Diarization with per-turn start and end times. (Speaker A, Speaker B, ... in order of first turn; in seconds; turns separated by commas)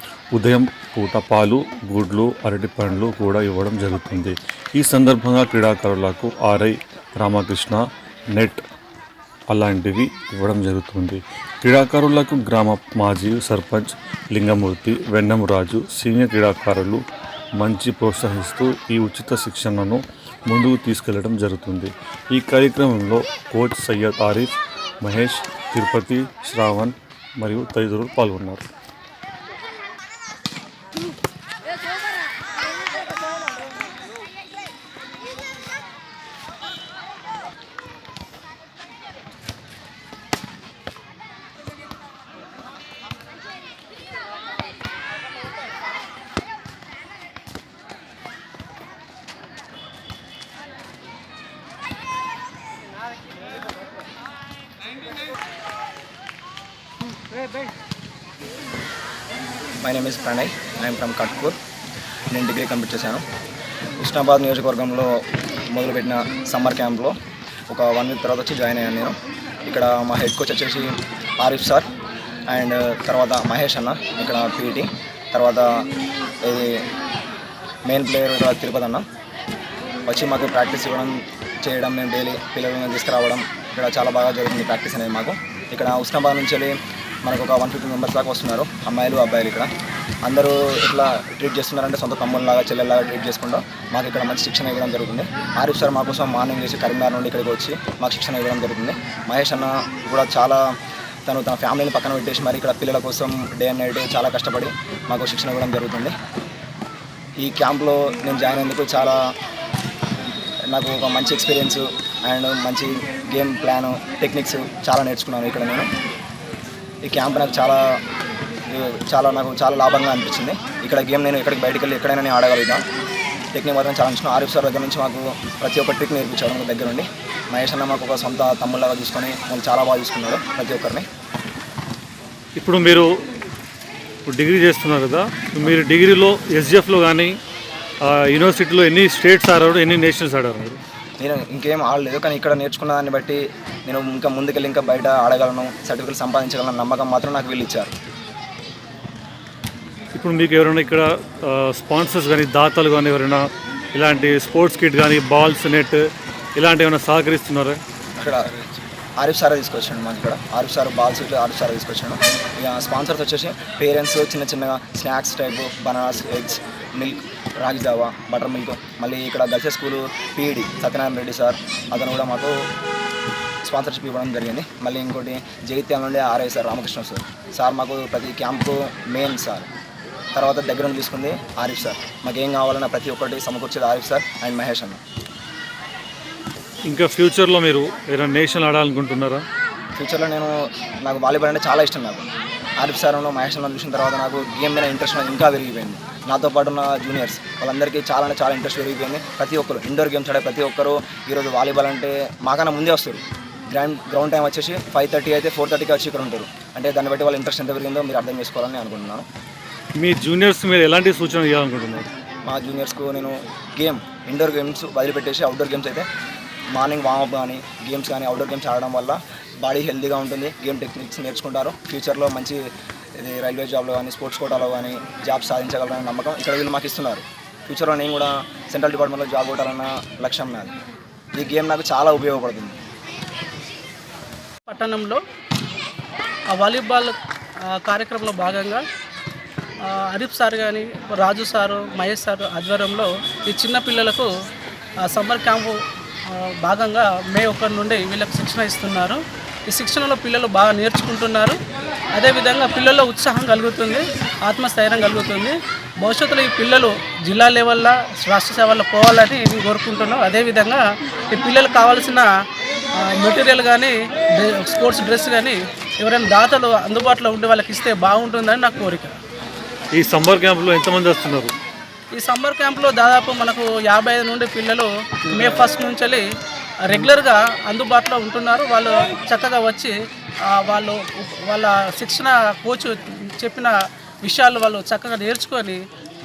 Speaker A: 0.3-7.8, Speaker A: 8.4-8.6, Speaker A: 9.5-17.0, Speaker A: 17.6-28.6, Speaker B: 59.8-61.6, Speaker B: 62.3-63.2, Speaker B: 64.0-65.2, Speaker B: 65.7-67.1, Speaker B: 67.7-71.9, Speaker B: 72.5-75.8, Speaker B: 76.4-76.8, Speaker B: 77.9-79.0, Speaker B: 80.1-89.7, Speaker B: 90.2-100.6, Speaker B: 101.3-106.2, Speaker B: 107.4-109.2, Speaker B: 110.7-115.9, Speaker B: 117.1-118.0, Speaker B: 118.7-122.8, Speaker B: 123.5-131.1, Speaker A: 132.6-133.1, Speaker A: 134.3-137.3, Speaker A: 138.2-140.8, Speaker B: 141.2-147.9, Speaker A: 150.2-153.4, Speaker A: 153.9-156.0, Speaker A: 156.6-157.8, Speaker B: 158.2-158.4, Speaker B: 159.2-172.5, Speaker B: 173.6-179.7, Speaker B: 180.4-185.0, Speaker A: 186.9-189.4, Speaker B: 190.0-192.3, Speaker B: 192.8-209.2, Speaker A: 210.0-212.1, Speaker B: 212.4-216.1, Speaker B: 216.7-222.6, Speaker B: 223.2-230.7, Speaker B: 231.4-232.8, Speaker C: 234.7-235.2, Speaker C: 236.5-237.1, Speaker C: 237.7-238.8, Speaker C: 239.9-244.3, Speaker C: 245.1-245.8, Speaker C: 246.3-251.6, Speaker C: 252.2-262.3, Speaker C: 263.0-269.1, Speaker A: 269.9-271.5, Speaker C: 272.1-276.3, Speaker C: 276.9-279.9, Speaker C: 280.5-285.8